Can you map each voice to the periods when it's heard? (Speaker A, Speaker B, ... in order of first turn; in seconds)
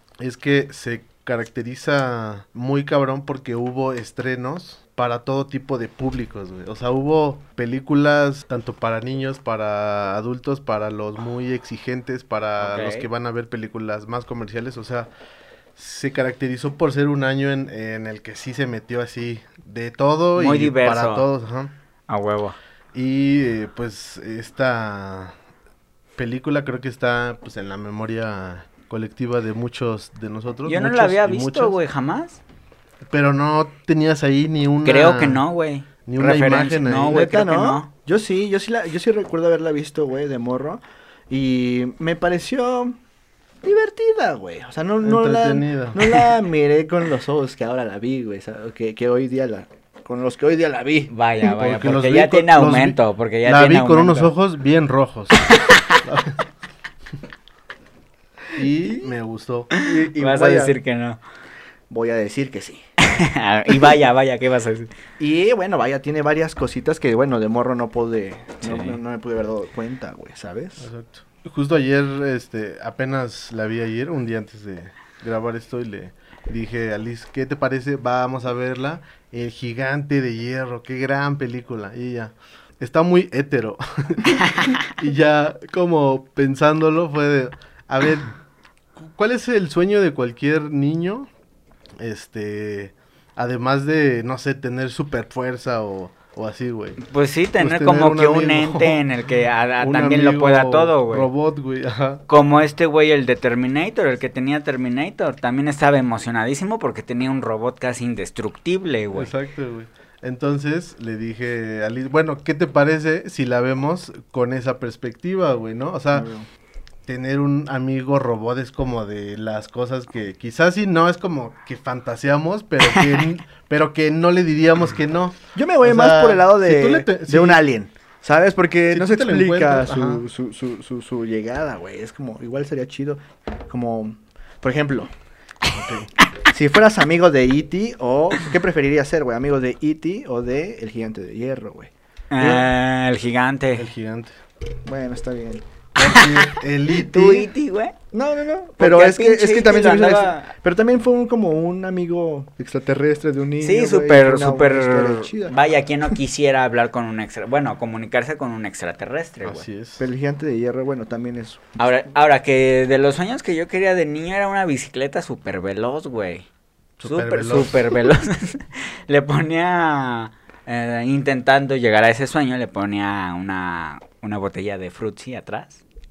Speaker A: 0.2-15.1, 15.8-21.7, 22.9-25.3, 26.1-31.8, 33.1-35.4, 36.0-37.3, 45.0-46.1, 51.6-55.5, 56.0-56.4, 58.5-59.7, 70.8-88.4, 89.0-91.3, 92.0-97.0, 97.6-99.0, 99.8-102.2, 109.1-116.3, 117.0-127.6, 128.9-130.2, 135.7-136.1, 143.8-144.3, 146.0-147.5, 159.4-160.1, 167.0-167.8
Speaker B: 12.6-13.1, 20.3-21.2, 22.1-22.6, 30.6-32.4, 34.8-37.9, 51.1-54.3, 59.7-61.2, 63.0-64.9, 68.6-69.0, 97.0-101.3, 102.3-109.3, 142.3-143.9, 146.0-147.9, 148.8-150.5, 153.6-159.6, 161.8-166.5, 167.0-175.8
Speaker C: 37.0-43.0, 43.6-51.1, 59.8-60.7, 61.9-62.8, 65.2-70.9, 116.1-116.5, 125.5-135.1, 136.5-142.7, 144.8-145.6, 148.1-155.5, 160.0-161.8